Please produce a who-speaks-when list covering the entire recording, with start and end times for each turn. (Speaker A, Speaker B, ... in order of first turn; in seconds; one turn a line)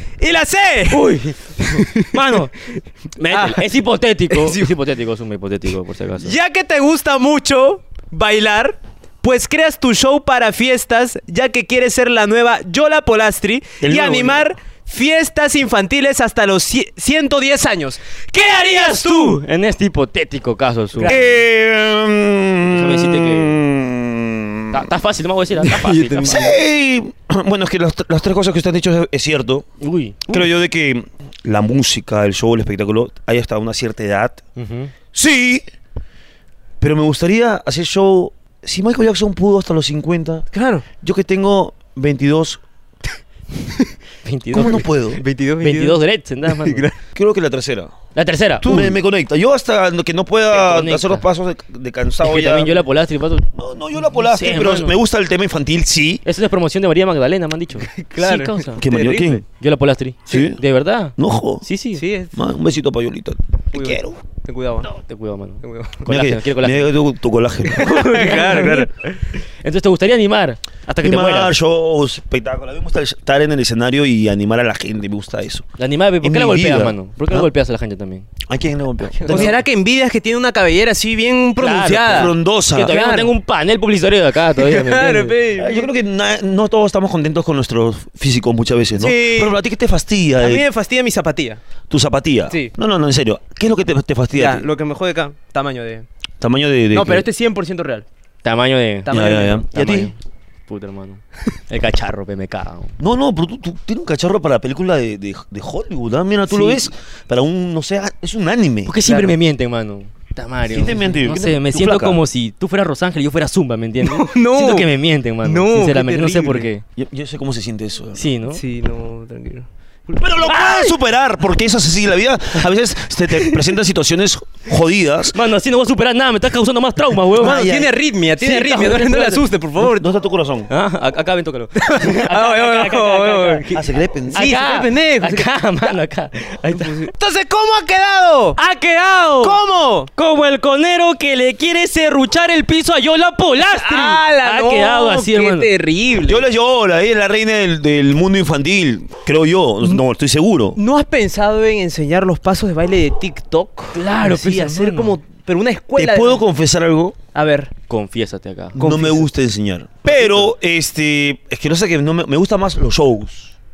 Speaker A: 0.2-2.2
Speaker B: 0.9-6.4
Speaker A: 3.3-3.6
Speaker A: 4.3-4.7
Speaker A: 6.2-19.4
Speaker C: 13.8-14.4
Speaker B: 18.4-21.3
Speaker A: 20.9-21.3
Speaker C: 21.1-24.9
Speaker B: 22.7-23.6
Speaker B: 24.7-26.5
Speaker A: 25.6-26.6
Speaker C: 26.2-29.6
Speaker B: 29.8-30.4
Speaker C: 30.3-34.4
Speaker B: 34.6-34.9
Speaker C: 35.1-35.6
Speaker C: 36.8-40.5
Speaker A: 40.5-40.8
Speaker C: 41.0-42.6
Speaker B: 44.2-44.9
Speaker C: 44.5-45.2
Speaker A: 44.6-47.0
Speaker B: 45.6-46.9
Speaker C: 47.1-48.0
Speaker B: 48.1-48.9
Speaker C: 48.6-52.8
Speaker B: 50.5-51.2
Speaker B: 52.2-53.5
Speaker C: 53.5-56.2
Speaker B: 54.0-55.0
Speaker B: 56.3-58.8
Speaker A: 57.8-59.4
Speaker C: 58.8-59.4
Speaker B: 59.5-62.0
Speaker C: 60.3-60.6
Speaker C: 61.2-61.6
Speaker A: 61.9-62.3
Speaker C: 62.3-64.2
Speaker A: 63.7-64.9
Speaker B: 64.9-66.9
Speaker A: 65.6-66.0
Speaker C: 66.0-67.9
Speaker A: 67.7-68.9
Speaker B: 67.8-68.9
Speaker B: 69.6-71.5
Speaker C: 71.0-75.7
Speaker B: 75.8-78.3
Speaker C: 76.2-77.5
Speaker C: 78.5-79.6
Speaker A: 79.2-83.3
Speaker B: 81.6-85.4
Speaker C: 82.1-82.9
Speaker A: 84.6-85.9
Speaker C: 85.6-90.7
Speaker A: 89.0-89.6
Speaker A: 90.4-91.6
Speaker C: 91.9-94.7
Speaker A: 94.3-96.1
Speaker C: 96.4-97.3
Speaker A: 96.9-98.0
Speaker B: 98.4-100.1
Speaker A: 99.0-99.7
Speaker C: 99.1-100.1
Speaker B: 100.7-102.9
Speaker C: 103.0-109.0
Speaker A: 106.5-106.9
Speaker B: 108.9-116.8
Speaker A: 109.0-109.3
Speaker C: 110.7-112.2
Speaker A: 114.0-114.9
Speaker A: 115.4-116.7
Speaker C: 117.0-118.3
Speaker B: 118.2-118.6
Speaker A: 118.5-120.4
Speaker C: 120.2-125.4
Speaker B: 120.5-120.9
Speaker B: 125.3-127.7
Speaker C: 127.4-127.9
Speaker A: 127.4-130.1
Speaker B: 128.4-129.4
Speaker C: 129.8-130.7
Speaker B: 130.7-133.7
Speaker A: 131.8-135.9
Speaker C: 133.7-134.5
Speaker B: 134.3-137.0
Speaker A: 136.7-138.6
Speaker B: 138.6-139.6
Speaker A: 139.4-140.1
Speaker B: 140.2-145.7
Speaker A: 143.6-146.4
Speaker C: 146.2-150.8
Speaker A: 150.8-156.4
Speaker B: 153.9-155.2
Speaker C: 155.9-157.2
Speaker A: 157.3-157.7
Speaker B: 157.9-158.8
Speaker A: 158.8-159.3
Speaker C: 158.8-163.5
Speaker A: 160.1-160.5